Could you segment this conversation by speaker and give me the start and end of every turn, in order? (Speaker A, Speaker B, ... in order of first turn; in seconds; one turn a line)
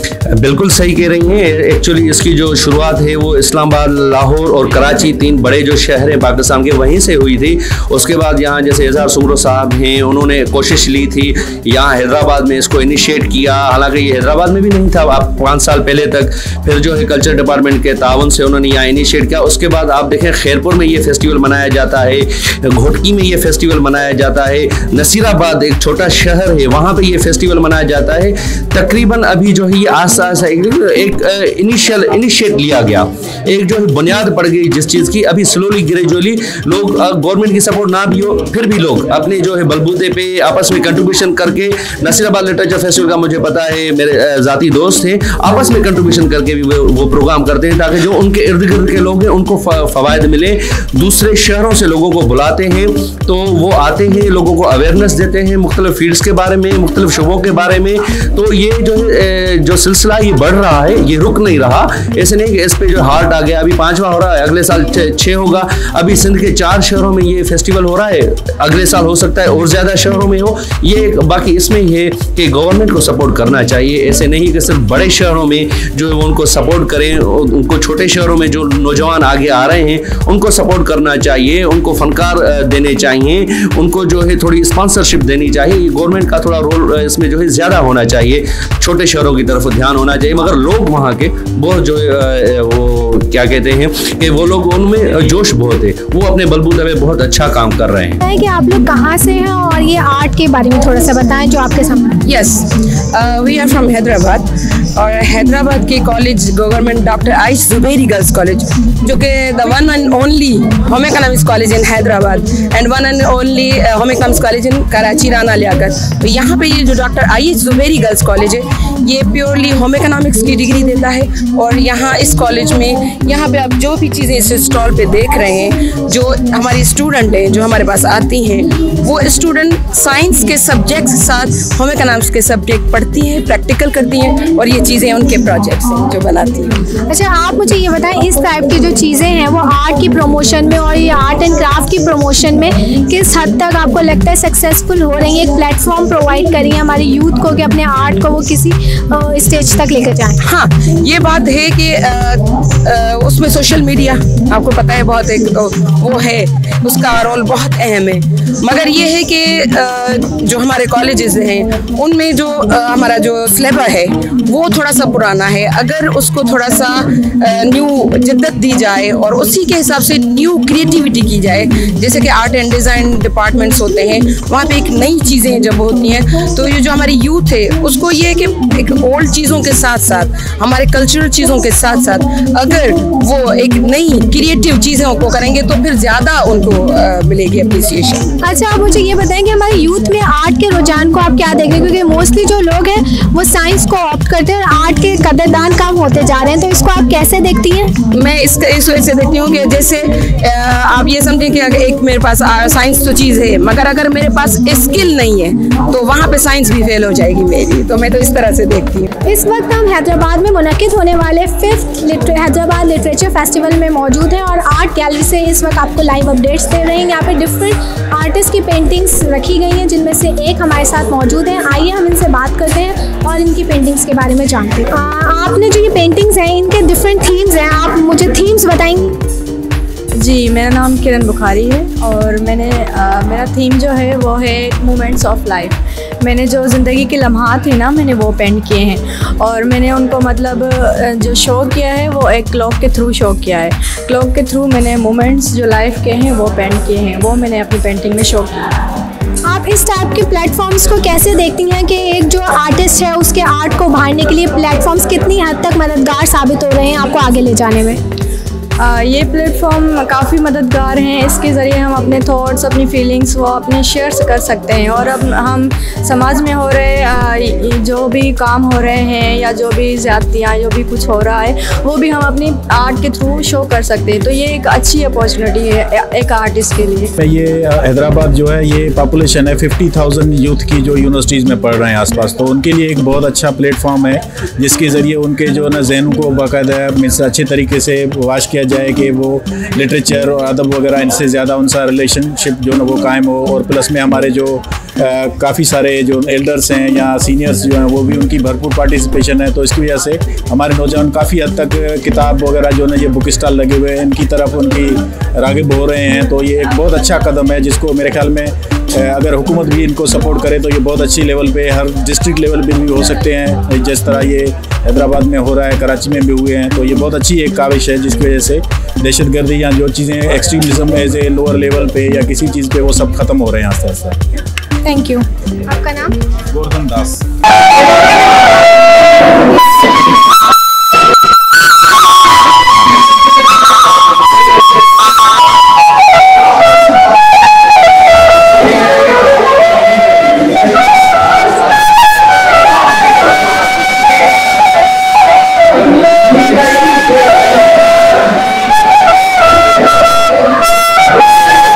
Speaker A: 0.3-98.2
Speaker B: 98.2-102.2
Speaker C: 102.2-136.8
Speaker B: 137.1-150.4
Speaker C: 150.4-188.2
Speaker B: 188.4-197.9
Speaker C: 198.1-209.1
Speaker B: 209.3-229.2
Speaker D: 230.2-248.7
Speaker B: 249.4-258.0
Speaker D: 258.8-277.1
Speaker E: 277.2-324.1
Speaker B: 324.8-326.1
Speaker E: 326.5-327.2